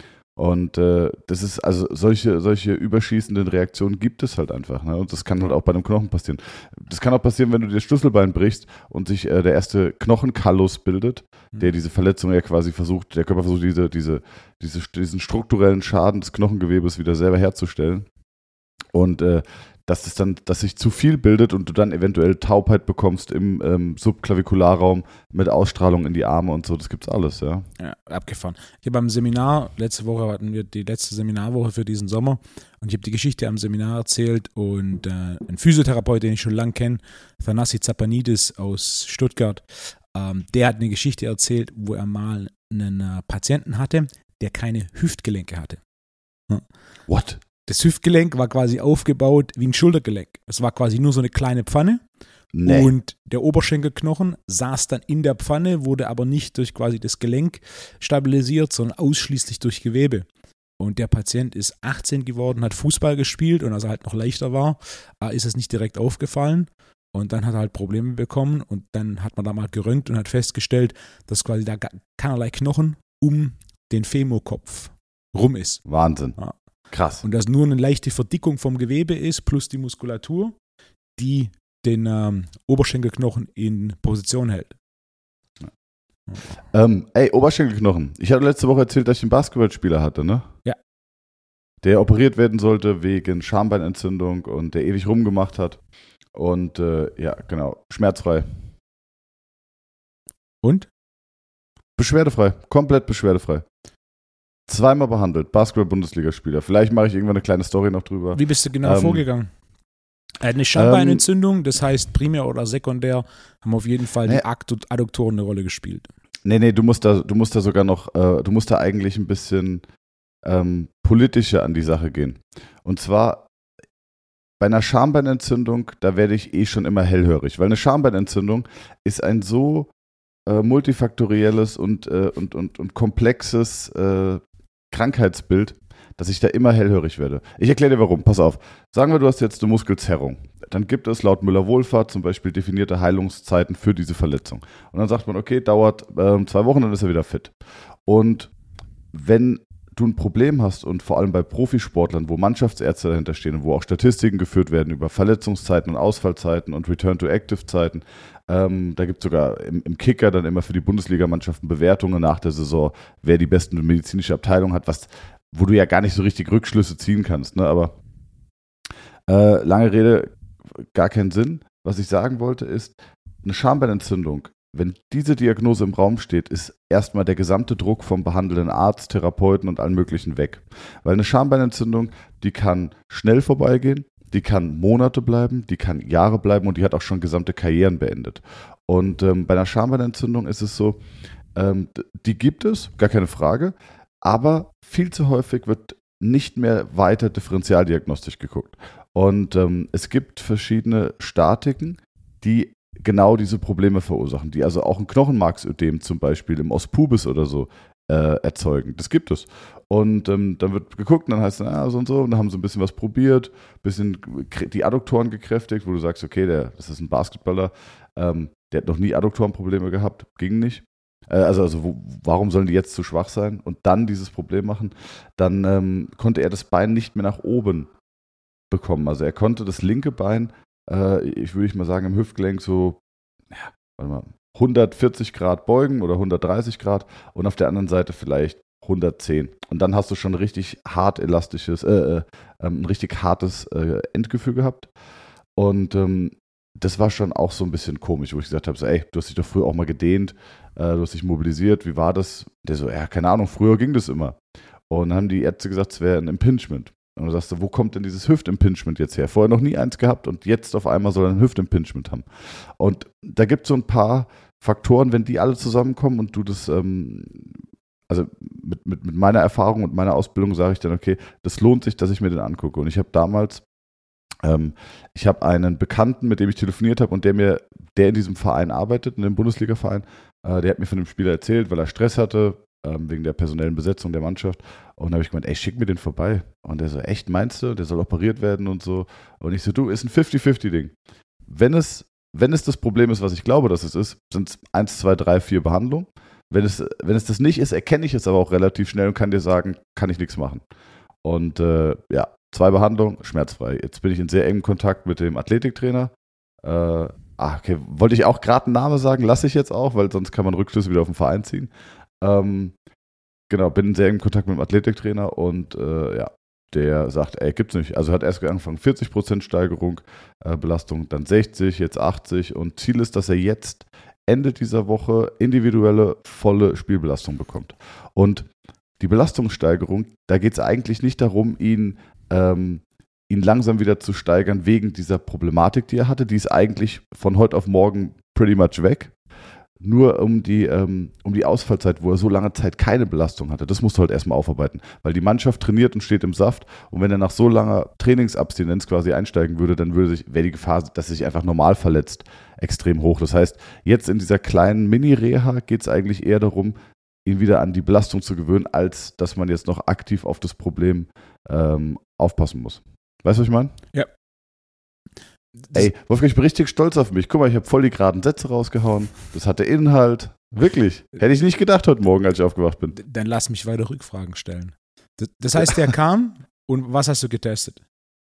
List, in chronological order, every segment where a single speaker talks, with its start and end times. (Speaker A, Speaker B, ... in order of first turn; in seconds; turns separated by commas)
Speaker A: 0.3-18.1, Speaker A: 18.9-27.7, Speaker B: 27.8-45.8, Speaker A: 47.1-47.4, Speaker B: 47.6-52.0, Speaker A: 52.5-52.9, Speaker B: 52.6-60.2, Speaker B: 60.8-75.8, Speaker A: 75.8-76.4, Speaker A: 76.9-77.2, Speaker B: 77.2-80.6, Speaker B: 81.2-84.8, Speaker A: 86.7-90.5, Speaker A: 91.8-95.8, Speaker A: 96.3-98.5, Speaker B: 100.6-100.9, Speaker A: 102.0-103.6, Speaker A: 104.7-109.2, Speaker B: 108.3-109.5, Speaker B: 110.4-116.1, Speaker A: 110.7-111.2, Speaker A: 116.4-119.8, Speaker A: 120.4-123.5, Speaker A: 124.6-129.9, Speaker A: 130.4-147.5, Speaker A: 148.1-148.5, Speaker A: 149.1-168.0, Speaker A: 169.3-191.0, Speaker A: 191.5-227.9, Speaker A: 228.7-233.0, Speaker A: 233.5-244.9, Speaker A: 245.6-254.4, Speaker A: 254.9-262.2, Speaker A: 262.8-273.6, Speaker A: 274.4-290.9, Speaker A: 291.5-300.6, Speaker A: 301.2-312.7, Speaker A: 313.5-328.5, Speaker A: 329.0-339.1, Speaker A: 339.8-363.7, Speaker A: 365.7-372.9, Speaker B: 372.9-377.8